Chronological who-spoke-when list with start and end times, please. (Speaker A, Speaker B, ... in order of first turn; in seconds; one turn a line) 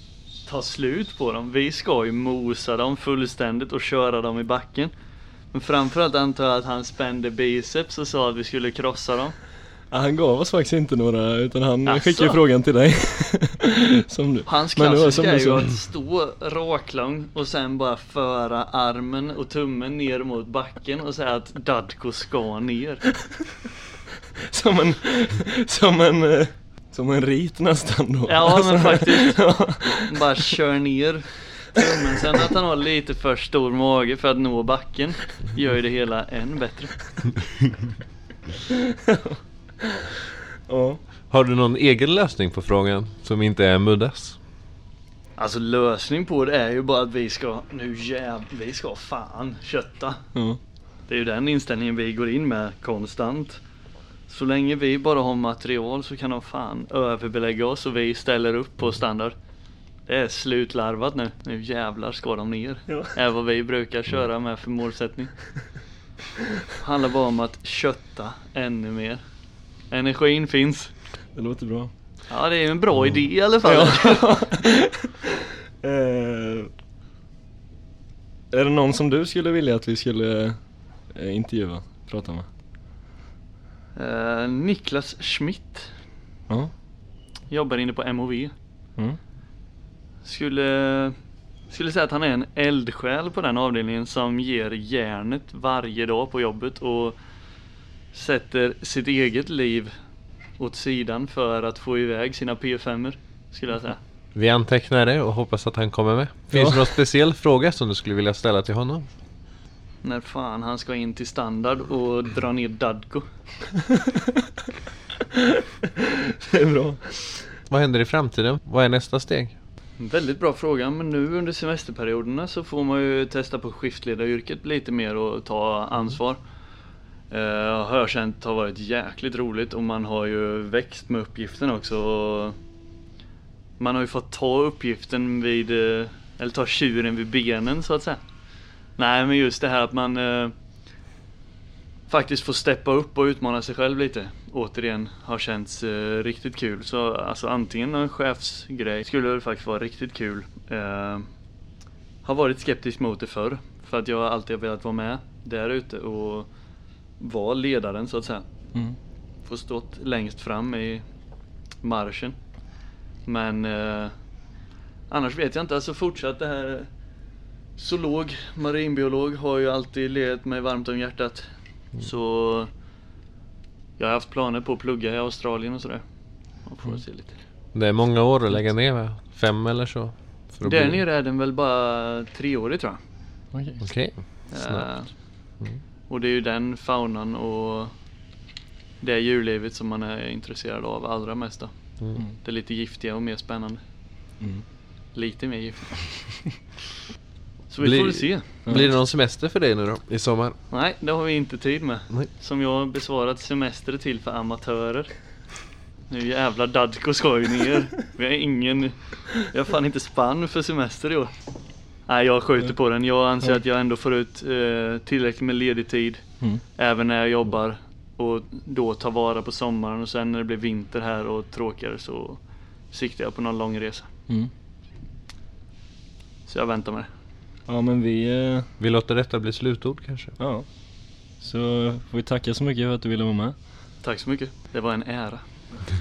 Speaker A: 0.4-4.9
Speaker A: 5.5-9.4
Speaker B: 9.9-15.7
Speaker A: 11.8-12.4
Speaker A: 14.4-23.1
Speaker B: 24.5-30.1
Speaker A: 28.2-37.0
Speaker B: 39.1-39.9
Speaker B: 40.7-41.0
Speaker C: 41.2-44.4
Speaker A: 45.4-50.2
Speaker B: 50.4-50.6
Speaker A: 51.1-53.6
Speaker A: 54.3-59.4
Speaker A: 60.0-65.4
Speaker B: 62.9-63.1
Speaker A: 66.8-69.2
Speaker A: 69.9-71.0
Speaker B: 71.3-71.9
Speaker A: 72.3-74.5
Speaker C: 72.9-73.5
Speaker B: 73.6-75.1
Speaker B: 75.8-76.7
Speaker B: 78.5-82.5
Speaker A: 83.9-85.9
Speaker A: 87.5-88.5
Speaker A: 90.2-91.1
Speaker A: 91.7-97.2
Speaker A: 98.1-99.9
Speaker A: 100.5-104.0
Speaker C: 104.3-109.1
Speaker B: 106.5-106.9
Speaker A: 110.0-113.3
Speaker B: 116.4-117.6
Speaker C: 117.7-119.5
Speaker A: 120.0-126.5
Speaker A: 127.3-132.6
Speaker A: 133.8-138.2
Speaker A: 138.9-140.5
Speaker A: 142.1-151.2
Speaker A: 152.2-156.5
Speaker A: 157.2-158.4
Speaker A: 159.4-161.0
Speaker A: 161.8-162.4
Speaker A: 163.2-164.1
Speaker A: 165.1-166.9
Speaker A: 167.8-172.7
Speaker A: 174.0-176.0
Speaker A: 176.6-177.5
Speaker C: 177.7-181.1
Speaker A: 180.6-183.0
Speaker B: 183.5-183.8
Speaker C: 183.8-185.8
Speaker A: 184.4-185.2
Speaker A: 186.1-188.0
Speaker A: 189.0-193.8
Speaker C: 192.0-192.2
Speaker A: 195.1-196.0
Speaker A: 197.7-198.7
Speaker C: 197.8-200.6
Speaker B: 198.6-198.9
Speaker A: 200.7-205.1
Speaker A: 206.1-211.3
Speaker A: 212.1-224.1
Speaker A: 226.4-227.1
Speaker B: 227.7-228.7
Speaker C: 228.8-230.4
Speaker B: 230.4-233.6
Speaker A: 234.0-235.6